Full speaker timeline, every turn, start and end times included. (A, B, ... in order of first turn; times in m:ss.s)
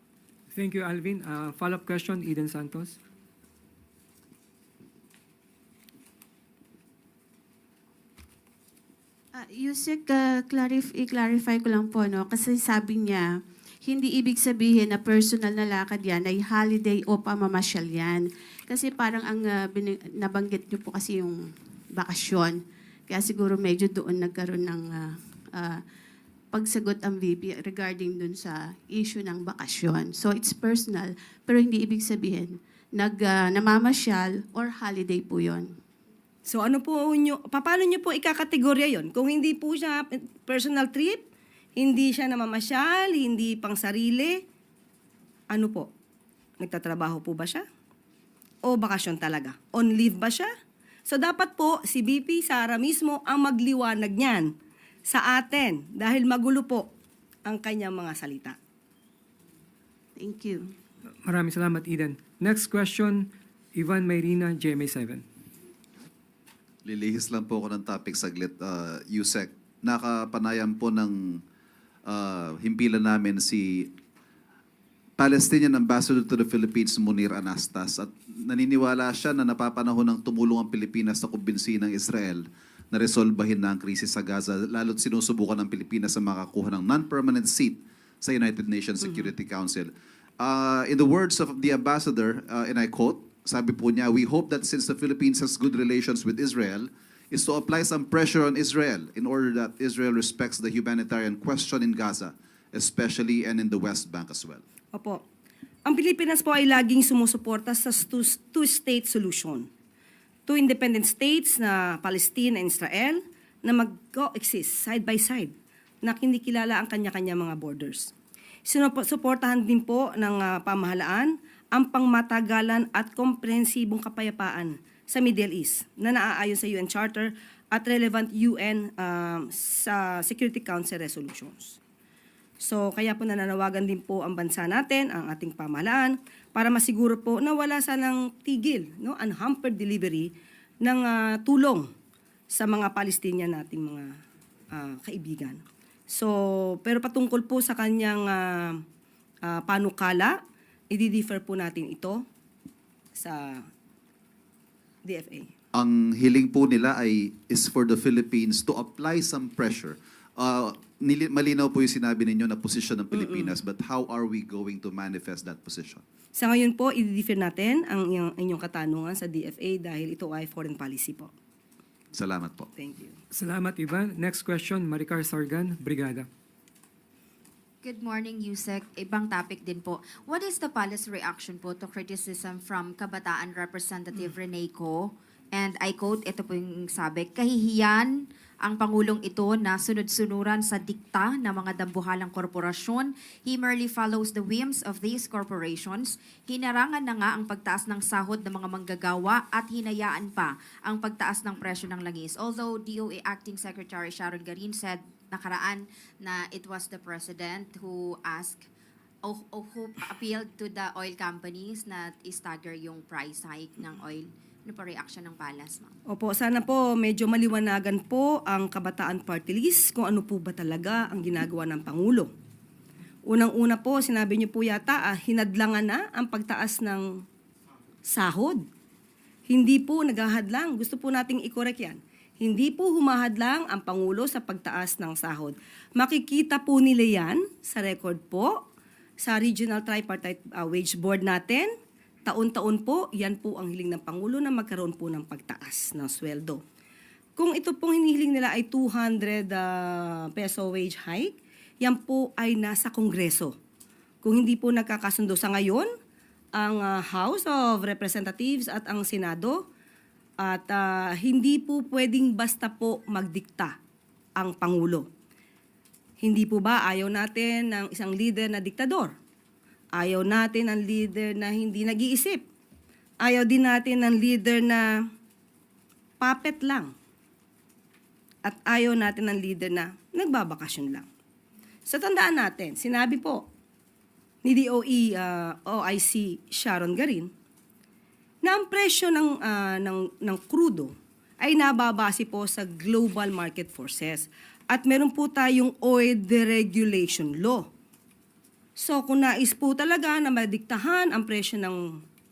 0:00.5-0:03.0 A
0:09.3-0:13.3 B
0:13.8-0:21.4 B
0:21.9-0:25.8 B
0:26.5-0:35.7 B
0:36.5-0:44.4 C
0:45.5-0:45.9 C
0:46.6-0:47.6 C
0:48.7-0:50.5 C
0:51.1-0:54.5 C
0:55.1-0:56.9 C
0:57.5-0:58.6 C
1:00.2-1:00.7 B
1:01.2-1:05.2 A
1:06.8-1:11.4 D
1:12.1-1:13.9 D
1:15.2-1:44.6 D
1:44.9-1:45.2 C
1:45.9-1:49.7 C
1:50.5-1:55.5 C
1:56.0-1:58.1 C
1:58.7-2:11.8 C
2:12.6-2:21.9 C
2:22.5-2:24.1 C
2:24.7-2:28.8 C
2:29.5-2:30.3 C
2:30.9-2:32.2 C
2:33.2-2:33.6 C
2:35.1-2:35.5 C
2:35.7-2:46.0 D
2:43.1-2:43.5 C
2:46.3-2:51.3 C
2:52.1-2:52.7 D
2:52.8-2:53.2 C
2:53.3-2:56.3 A
2:57.8-3:28.6 E
3:29.2-3:35.9 E
3:36.1-3:42.3 C
3:43.3-3:47.1 C
3:48.0-3:48.6 C
3:49.5-3:58.6 C
3:59.2-4:01.7 C
4:02.3-4:06.6 C
4:07.4-4:13.5 C
4:14.2-4:15.9 C
4:16.6-4:19.6 C
4:20.4-4:23.8 C
4:24.4-4:25.0 C
4:26.2-4:29.1 C
4:30.0-4:32.4 C
4:33.2-4:34.9 C
4:36.2-4:36.9 C
4:38.4-4:41.0 C
4:41.9-4:43.5 C
4:44.4-4:47.3 C
4:48.4-4:57.7 C
4:58.8-5:01.8 C